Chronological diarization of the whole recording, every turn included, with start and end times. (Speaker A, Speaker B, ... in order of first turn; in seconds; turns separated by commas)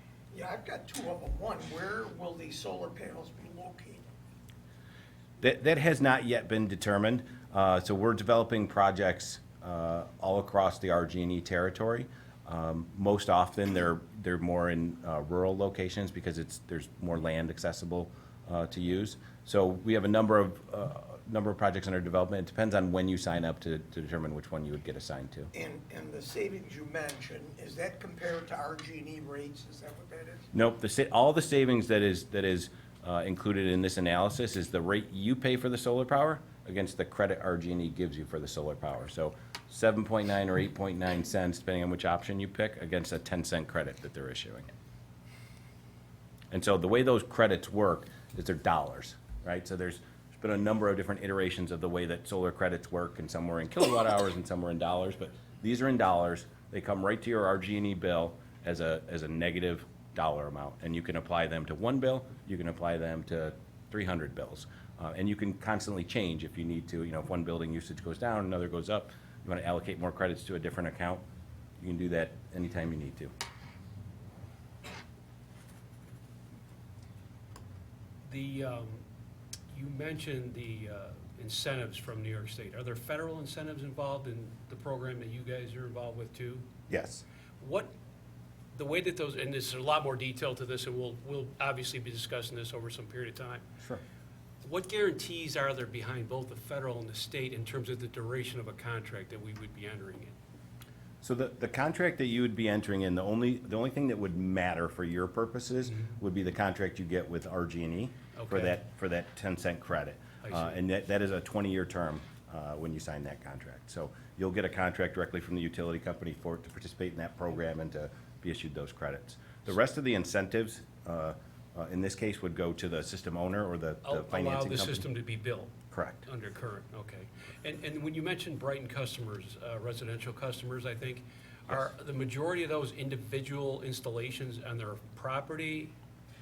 Speaker A: 0.3-4.0, Speaker B: 5.4-25.5, Speaker A: 25.5-30.5, Speaker B: 30.5-44.7, Speaker B: 46.5-71.2, Speaker B: 71.8-73.3, Speaker C: 78.2-79.0, Speaker C: 79.7-86.7, Speaker B: 86.9-87.2, Speaker C: 87.6-87.9, Speaker C: 88.7-93.6, Speaker C: 94.6-100.3, Speaker B: 101.2-125.1, Speaker C: 108.4-108.8, Speaker C: 110.4-110.8, Speaker C: 124.0-125.7, Speaker B: 125.9-126.3, Speaker C: 126.3-135.9